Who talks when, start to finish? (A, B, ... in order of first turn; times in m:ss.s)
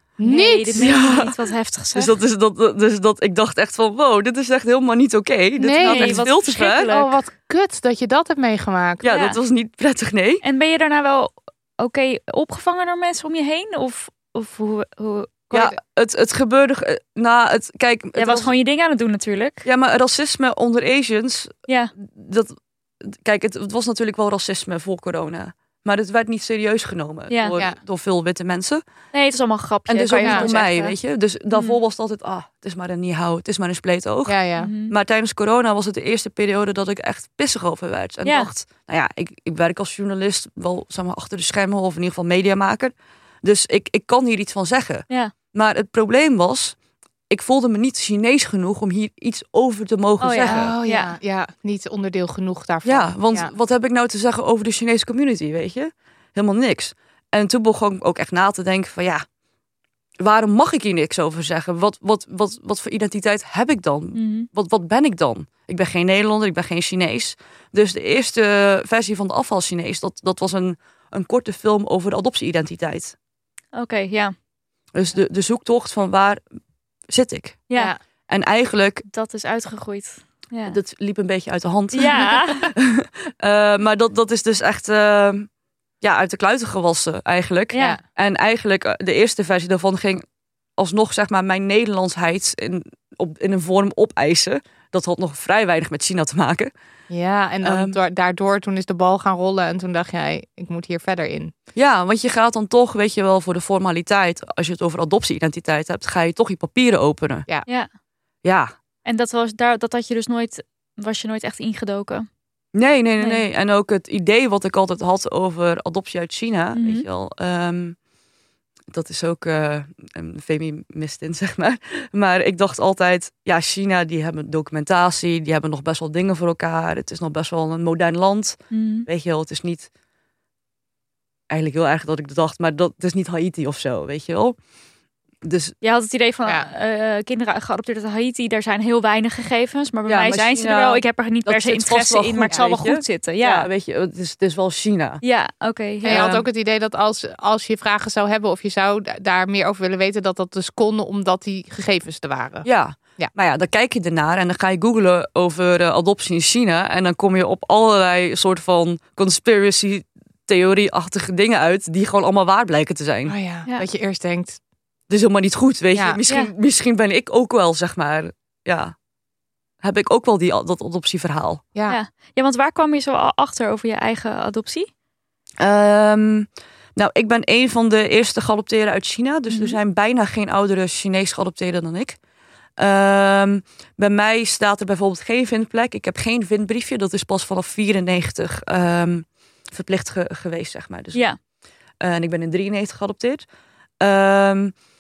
0:00.2-0:00.9 A
0:00.2-0:02.1 B
0:00.8-0:01.3 C
0:01.9-0:06.9 C
0:05.6-0:06.3 A
0:05.8-0:07.1 B
0:06.8-0:09.1 A
0:09.0-0:10.4 C
0:09.1-0:09.4 B
0:10.4-0:15.5 B
0:15.5-0:15.8 A
0:15.5-0:18.5 C
0:18.2-0:19.6 B
0:19.6-0:28.8 C
0:21.7-0:21.9 B
0:27.3-0:27.6 B
0:29.1-0:30.9 B
0:29.9-0:46.7 C
0:30.2-0:30.5 A
0:31.5-0:31.8 B
0:34.2-0:34.7 A
0:34.6-0:34.9 B
0:47.3-0:50.8 C
0:50.2-0:51.1 B
0:50.5-0:53.5 A
0:52.8-0:59.2 C
1:00.2-1:13.1 C
1:04.1-1:04.5 B
1:13.7-1:14.3 B
1:14.9-1:16.4 C
1:17.1-1:17.6 C
1:18.3-1:19.0 C
1:19.1-1:20.8 B
1:20.7-1:25.5 C
1:21.9-1:22.7 B
1:26.0-1:30.2 C
1:27.7-1:28.0 B
1:30.8-1:36.7 C
1:37.1-1:41.5 A
1:37.6-1:38.0 C
1:41.7-1:47.5 C
1:48.4-1:48.7 C
1:49.0-1:52.3 B
1:52.7-1:58.0 C
1:56.7-1:57.0 B
1:58.9-2:09.9 C
2:08.7-2:09.1 B
2:11.5-2:14.6 C
2:15.4-2:15.8 C
2:15.8-2:23.7 B
2:16.4-2:16.7 A
2:20.1-2:25.2 C
2:25.2-2:26.3 B
2:26.0-2:32.6 A
2:26.1-2:26.4 C
2:32.6-2:43.4 C
2:43.2-2:44.6 A
2:45.1-2:48.9 C
2:45.9-2:46.2 A
2:49.8-2:51.6 C
2:51.9-2:54.9 B
2:55.6-3:02.2 C
2:59.5-2:59.8 B
3:02.8-3:11.2 C
3:12.0-3:13.4 C
3:14.0-3:14.7 C